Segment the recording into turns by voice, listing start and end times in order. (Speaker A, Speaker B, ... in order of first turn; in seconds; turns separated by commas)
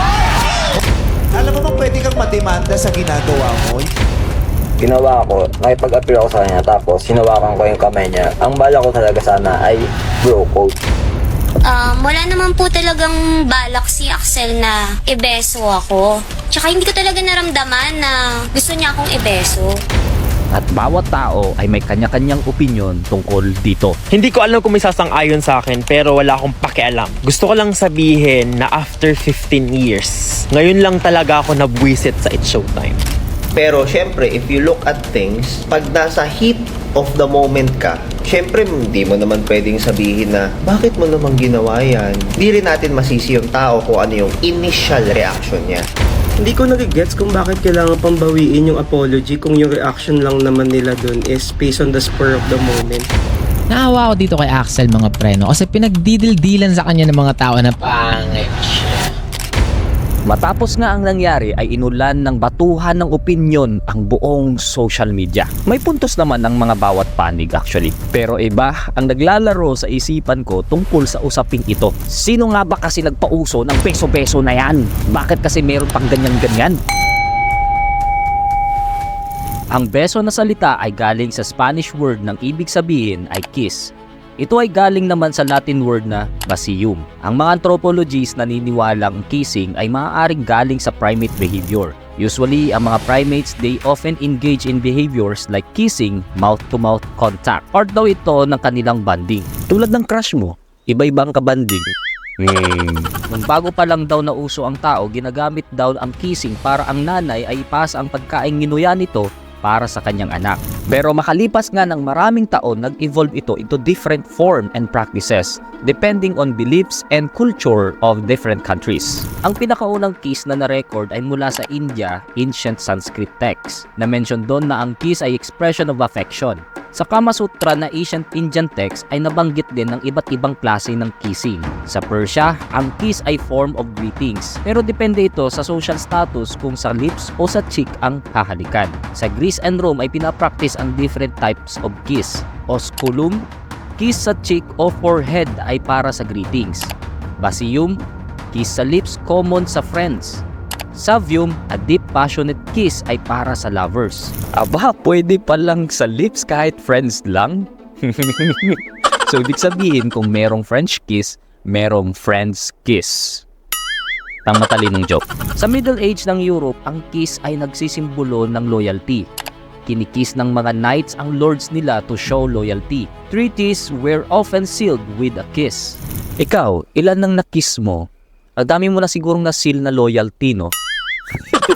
Speaker A: 1.3-3.9, Speaker B: 4.8-10.7, Speaker C: 11.7-19.7, Speaker D: 20.5-23.9, Speaker E: 24.1-33.0, Speaker F: 33.5-45.8, Speaker G: 46.4-53.1, Speaker H: 53.7-59.1, Speaker D: 60.3-76.8, Speaker D: 79.7-143.4, Speaker D: 144.0-148.0, Speaker D: 148.5-150.4, Speaker D: 150.9-163.4, Speaker D: 164.4-169.2, Speaker D: 169.9-178.0, Speaker D: 178.6-180.7